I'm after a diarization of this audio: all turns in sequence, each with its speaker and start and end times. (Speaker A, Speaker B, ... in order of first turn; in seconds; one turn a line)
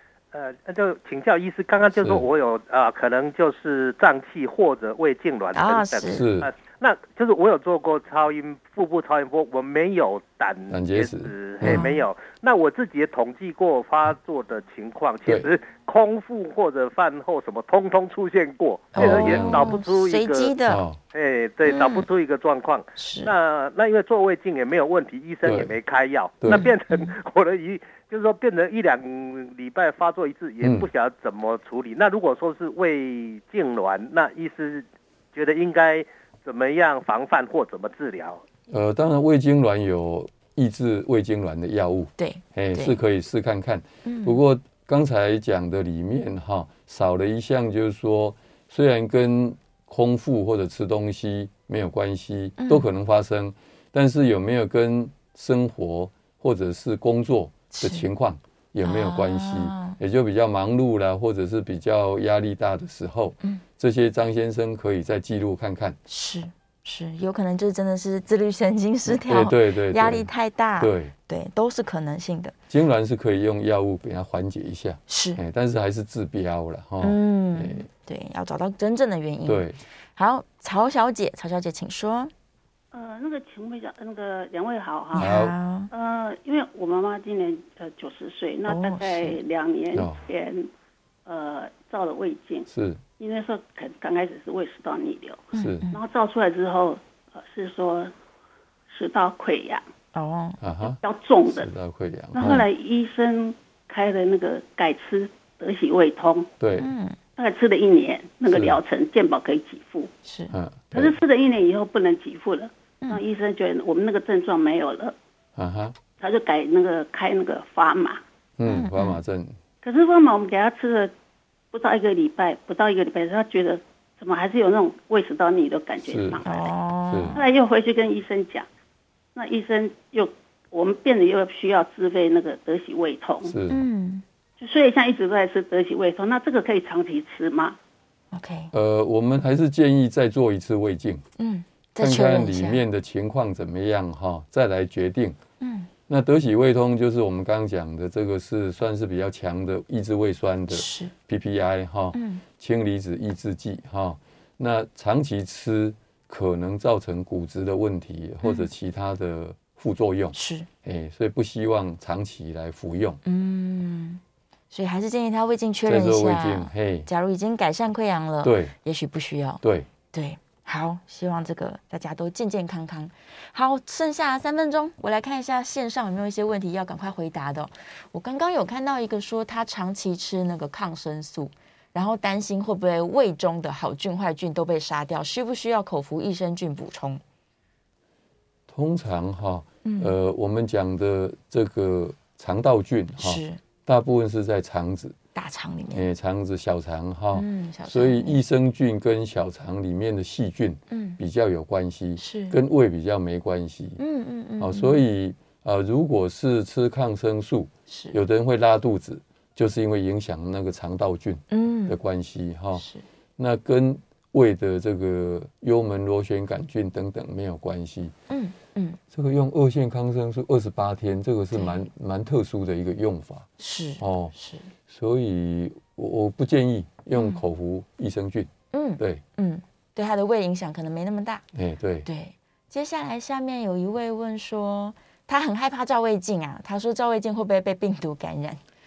Speaker A: 0.3-20.5
Speaker B: 1.9-2.2
Speaker C: 5.5-6.2
Speaker B: 6.0-6.5
Speaker B: 10.7-11.9
Speaker C: 11.6-12.0
Speaker B: 15.2-15.5
Speaker C: 18.9-20.8
Speaker B: 18.9-19.8
Speaker B: 20.6-21.0
Speaker A: 21.1-38.4
Speaker C: 21.6-22.1
Speaker C: 23.0-23.3
Speaker B: 25.4-25.8
Speaker B: 26.4-26.7
Speaker C: 26.5-27.1
Speaker B: 30.6-30.9
Speaker B: 38.7-66.0
Speaker C: 42.2-43.0
Speaker C: 44.0-44.4
Speaker C: 52.6-52.9
Speaker C: 57.7-58.1
Speaker C: 58.8-60.0
Speaker C: 66.1-72.5
Speaker B: 69.1-70.3
Speaker B: 70.8-71.1
Speaker B: 72.7-77.9
Speaker C: 75.1-75.4
Speaker C: 77.0-82.3
Speaker B: 79.5-79.8
Speaker D: 82.9-85.3
Speaker B: 85.2-85.5
Speaker C: 85.2-85.9
Speaker D: 85.9-90.7
Speaker C: 88.7-89.4
Speaker B: 89.9-90.2
Speaker D: 91.2-92.7
Speaker B: 92.7-93.0
Speaker D: 93.2-98.1
Speaker C: 95.5-96.0
Speaker B: 95.5-95.8
Speaker D: 98.9-99.8
Speaker C: 100.1-100.6
Speaker B: 100.6-102.7
Speaker D: 101.0-101.7
Speaker D: 102.3-106.5
Speaker B: 106.6-106.9
Speaker C: 106.8-107.2
Speaker D: 107.4-110.1
Speaker B: 108.5-108.8
Speaker C: 110.2-110.5
Speaker B: 110.5-111.2
Speaker D: 110.9-115.1
Speaker B: 115.6-116.0
Speaker D: 116.2-118.2
Speaker B: 118.6-119.6
Speaker C: 118.7-119.2
Speaker D: 119.8-121.1
Speaker D: 121.7-126.7
Speaker B: 126.1-126.4
Speaker C: 126.5-127.4
Speaker B: 127.1-127.4
Speaker D: 127.3-128.7
Speaker D: 129.3-133.6
Speaker B: 133.4-133.8
Speaker C: 133.7-134.2
Speaker D: 134.6-137.8
Speaker C: 138.3-138.7
Speaker B: 138.7-141.2
Speaker C: 141.4-142.8
Speaker B: 142.0-145.4
Speaker C: 145.6-145.9
Speaker B: 146.1-163.2
Speaker C: 150.7-151.1
Speaker C: 152.1-152.4
Speaker C: 158.4-158.7
Speaker C: 160.3-160.7
Speaker C: 163.2-169.6
Speaker B: 165.8-167.1
Speaker B: 168.4-168.7
Speaker B: 169.6-169.9
Speaker C: 170.1-187.2
Speaker B: 188.7-195.2
Speaker C: 189.8-190.1
Speaker C: 193.2-193.6
Speaker C: 195.3-196.1
Speaker B: 195.9-204.0
Speaker C: 197.3-198.4
Speaker C: 200.9-201.2
Speaker C: 202.2-202.6
Speaker C: 204.0-205.0
Speaker B: 204.6-212.8
Speaker C: 207.9-208.2
Speaker C: 211.5-211.9
Speaker C: 212.8-213.0
Speaker B: 213.4-218.1
Speaker C: 218.3-219.0
Speaker B: 219.1-223.5
Speaker C: 221.5-221.8
Speaker C: 223.6-224.7
Speaker B: 224.0-224.3
Speaker B: 224.9-229.2
Speaker C: 227.1-227.4
Speaker C: 228.7-231.4
Speaker B: 231.5-232.1
Speaker C: 232.1-238.6